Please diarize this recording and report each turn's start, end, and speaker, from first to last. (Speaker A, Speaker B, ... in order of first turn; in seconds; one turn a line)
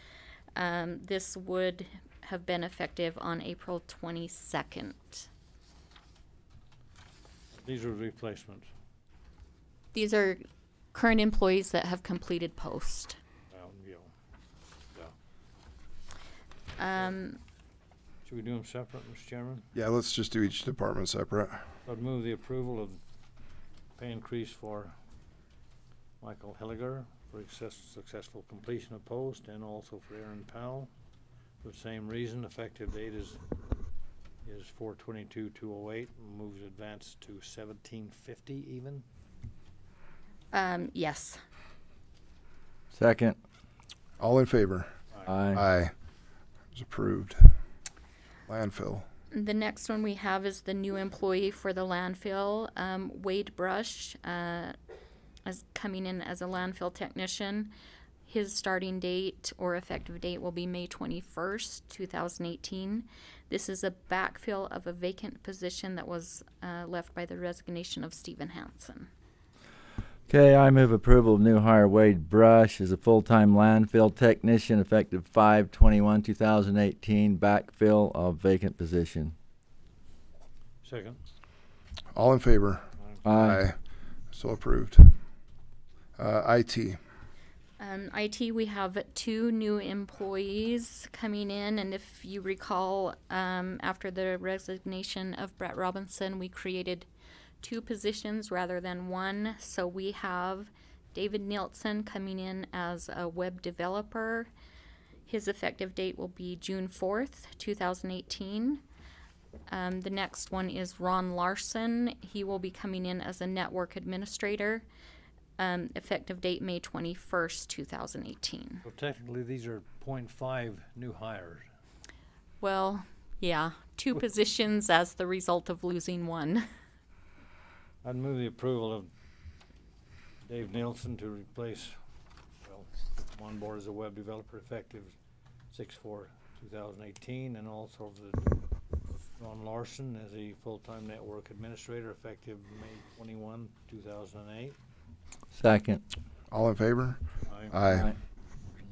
Speaker A: 0.6-5.3
Speaker B: 7.6-8.7
Speaker A: 9.9-10.4
Speaker A: 10.9-13.2
Speaker B: 13.5-14.1
Speaker A: 16.8-17.4
Speaker B: 18.2-19.6
Speaker C: 19.7-21.7
Speaker B: 21.9-23.0
Speaker B: 24.0-24.9
Speaker B: 26.2-30.9
Speaker B: 31.6-33.4
Speaker B: 34.4-39.0
Speaker A: 40.5-41.4
Speaker D: 42.9-43.4
Speaker C: 44.2-45.0
Speaker D: 45.2-45.6
Speaker C: 45.5-45.9
Speaker C: 46.7-47.5
Speaker C: 48.5-49.1
Speaker A: 49.3-54.7
Speaker A: 55.5-57.7
Speaker A: 58.3-69.1
Speaker D: 70.3-79.3
Speaker B: 80.8-81.2
Speaker C: 82.1-83.8
Speaker D: 83.2-83.6
Speaker C: 84.3-85.1
Speaker C: 86.2-87.0
Speaker A: 87.8-97.1
Speaker A: 97.6-104.5
Speaker A: 105.3-108.8
Speaker A: 109.7-114.9
Speaker A: 115.6-118.8
Speaker B: 118.8-121.7
Speaker A: 122.6-126.6
Speaker B: 128.0-129.1
Speaker B: 130.4-132.0
Speaker B: 132.6-135.2
Speaker B: 135.7-138.6
Speaker B: 139.4-144.8
Speaker D: 145.5-146.0
Speaker C: 146.5-148.1
Speaker B: 147.4-147.8
Speaker D: 147.9-148.2